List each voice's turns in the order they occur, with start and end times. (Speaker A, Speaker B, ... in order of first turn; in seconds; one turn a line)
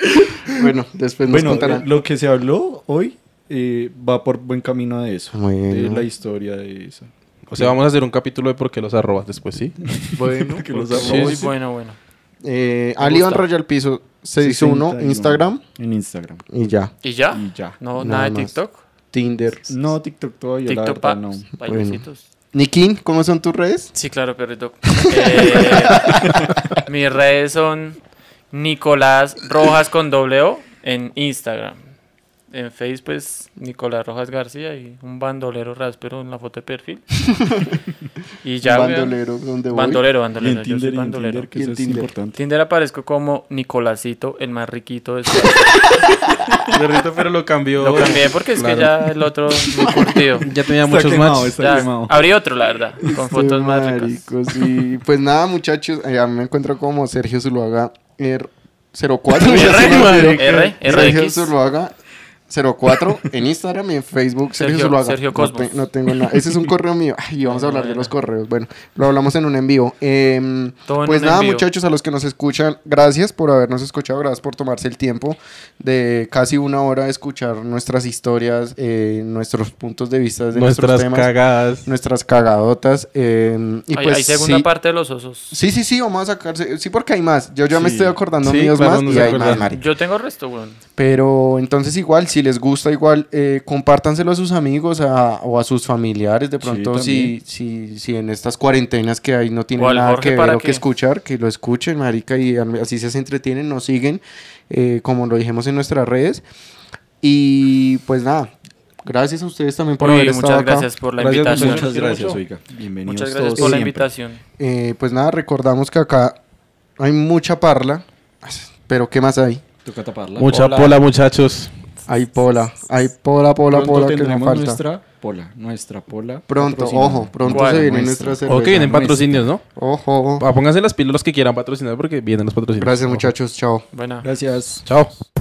Speaker A: 0.3-1.9
Speaker B: 1.3-7.7
Speaker A: 5.3-6.1
Speaker C: 7.5-11.4
Speaker B: 10.1-11.5
Speaker D: 10.2-12.0
Speaker A: 12.4-15.6
Speaker D: 13.0-13.4
Speaker B: 14.4-16.4
Speaker A: 16.5-16.9
Speaker D: 17.0-18.8
Speaker B: 17.3-17.8
Speaker A: 17.9-18.5
Speaker A: 19.1-19.7
Speaker B: 19.7-21.5
Speaker D: 20.7-22.2
Speaker A: 21.6-23.9
Speaker D: 23.9-26.3
Speaker A: 25.0-26.4
Speaker D: 26.8-28.0
Speaker D: 28.5-31.8
Speaker D: 32.5-37.0
Speaker A: 37.4-37.7
Speaker D: 38.4-39.1
Speaker A: 38.6-40.0
Speaker D: 39.7-41.5
Speaker B: 40.4-42.4
Speaker A: 41.5-42.1
Speaker D: 42.3-45.7
Speaker A: 45.7-46.5
Speaker C: 46.7-48.9
Speaker D: 47.8-50.5
Speaker A: 49.7-50.2
Speaker C: 50.4-51.9
Speaker B: 50.8-52.3
Speaker D: 51.6-54.2
Speaker A: 53.1-61.9
Speaker D: 59.4-61.5
Speaker C: 59.5-60.8
Speaker A: 62.5-81.3
Speaker D: 64.6-65.8
Speaker D: 67.5-68.1
Speaker D: 70.9-71.7
Speaker C: 80.5-81.9
Speaker A: 81.8-84.7
Speaker D: 83.9-85.6
Speaker A: 85.5-89.8
Speaker B: 87.7-88.2
Speaker C: 88.4-89.7
Speaker B: 89.0-89.7
Speaker D: 89.7-90.8
Speaker A: 91.0-106.4
Speaker B: 96.6-97.3
Speaker D: 99.8-100.8
Speaker A: 107.2-108.5
Speaker A: 109.0-110.9
Speaker D: 110.0-112.4
Speaker B: 111.2-114.1
Speaker C: 111.3-112.4
Speaker D: 113.0-114.4
Speaker A: 114.6-116.4
Speaker A: 117.0-119.6
Speaker B: 119.8-120.7
Speaker D: 120.4-121.0
Speaker C: 120.4-121.7
Speaker A: 122.1-124.8
Speaker B: 123.7-129.4
Speaker A: 126.5-129.0
Speaker D: 127.5-127.9
Speaker C: 128.4-129.6
Speaker A: 129.8-130.4
Speaker C: 130.4-133.2
Speaker A: 132.8-133.8
Speaker D: 133.9-134.2
Speaker B: 134.2-134.9
Speaker C: 134.8-135.1